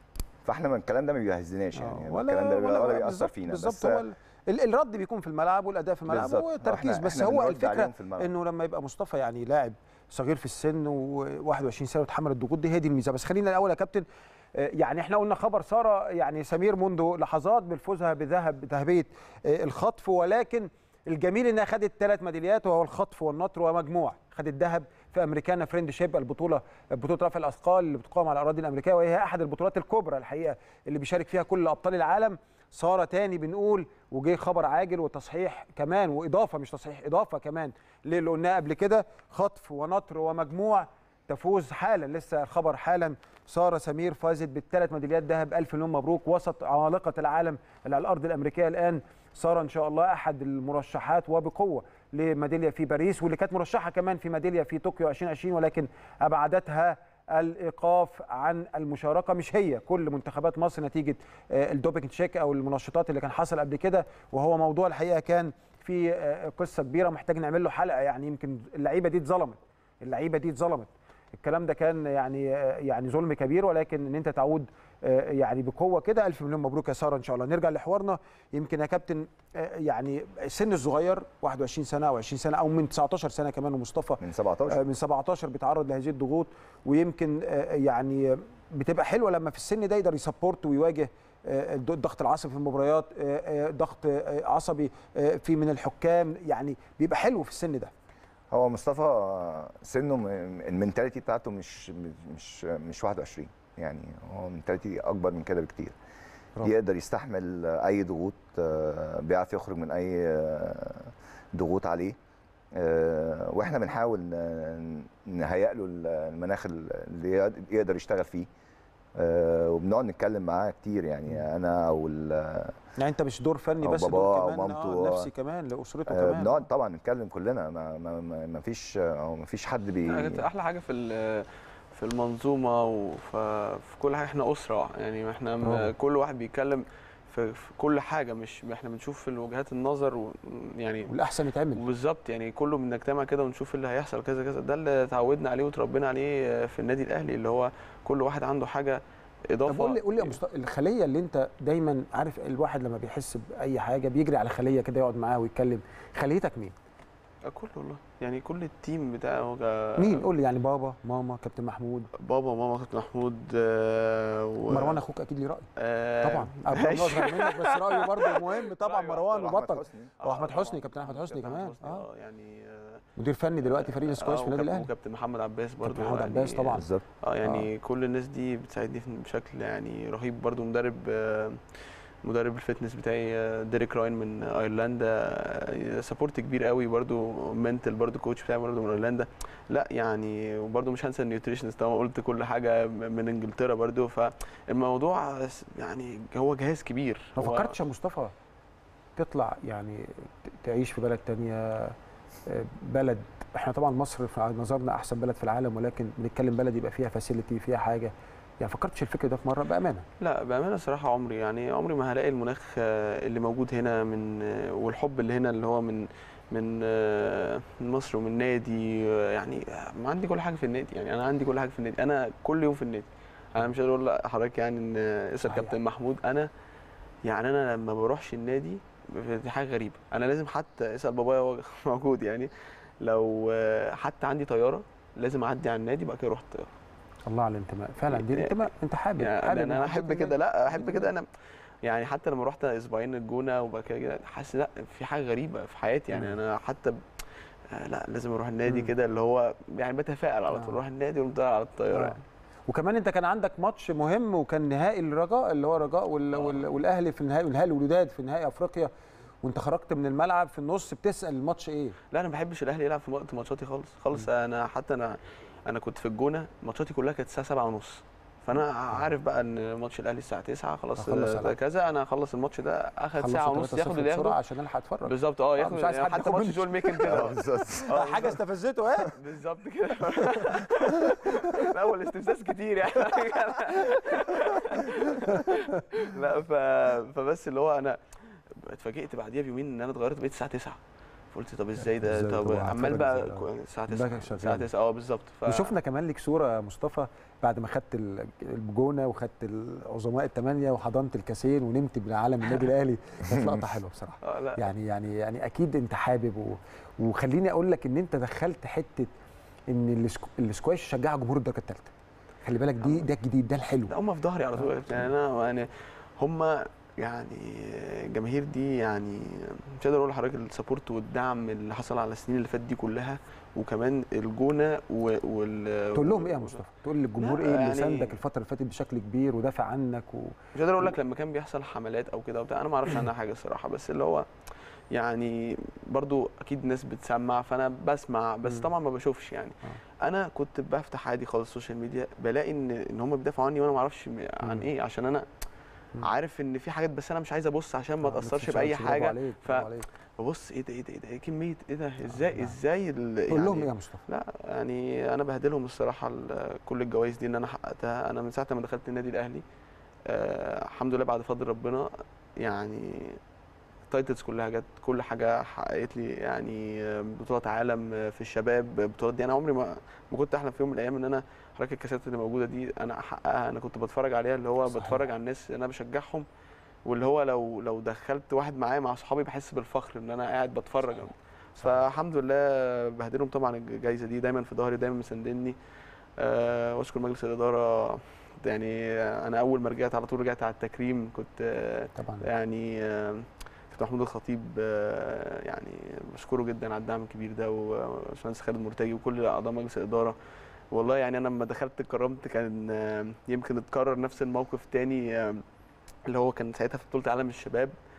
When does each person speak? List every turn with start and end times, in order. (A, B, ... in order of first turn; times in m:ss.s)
0:00.4-0:04.0 A
0:01.7-1:37.9 B
0:06.1-0:08.3 A
1:24.2-1:24.8 A
1:38.5-1:46.0 A
1:46.6-1:52.2 A
1:52.7-1:58.5 A
1:59.1-2:02.8 A
2:03.0-2:06.6 B
2:03.8-2:05.3 A
2:06.1-2:10.4 A
2:10.1-2:21.1 C
2:15.6-2:15.9 B
2:21.1-2:21.8 B
2:21.7-2:30.4 C
2:29.7-2:36.7 B
2:37.4-2:40.3 C
2:40.0-2:42.1 B
2:42.1-2:45.0 C
2:44.7-2:45.7 B
2:45.8-2:49.6 C
2:46.2-2:52.0 B
2:49.4-2:50.1 A
2:50.2-2:53.0 C
2:53.2-2:54.9 B
2:53.6-3:17.8 C
2:55.8-2:56.8 B
2:56.7-2:57.0 A
3:17.4-3:18.3 B
3:19.2-3:21.9 B
3:22.4-3:30.0 B
3:30.2-3:46.5 C
3:45.4-3:45.7 B
3:47.2-3:56.7 C
3:57.3-4:01.1 B
3:58.1-3:58.6 C
3:59.2-4:01.3 C
4:01.8-4:07.0 C
4:06.1-4:06.4 B
4:07.7-4:12.2 C
4:08.7-4:08.9 B
4:10.5-4:10.8 B
4:11.9-4:18.9 B
4:19.4-4:22.0 B
4:22.1-4:34.4 C
4:31.0-4:31.6 B
4:33.2-4:37.2 B
4:35.0-4:38.4 C
4:37.1-4:38.1 A
4:37.8-4:39.2 B
4:39.0-4:50.8 C
4:40.2-4:41.6 B
4:43.8-4:45.6 B
4:51.3-4:55.7 C
4:52.0-4:54.7 B
4:55.4-5:09.1 B
5:04.2-5:04.6 C
5:09.7-5:11.9 B
5:12.4-5:13.9 B
5:13.9-5:26.6 C
5:25.9-5:30.8 B
5:27.2-5:28.2 C
5:30.5-5:34.3 C
5:34.9-5:45.3 C
5:44.4-5:44.7 B
5:46.0-5:59.4 C
5:48.0-5:49.9 B
5:52.1-5:52.6 B
5:53.3-5:54.0 B
6:00.0-6:03.2 C
6:03.9-6:16.3 C
6:14.7-6:15.0 B
6:16.8-6:25.6 C
6:26.2-6:40.2 C
6:32.0-6:32.2 B
6:40.7-6:45.4 C
6:46.0-6:47.8 C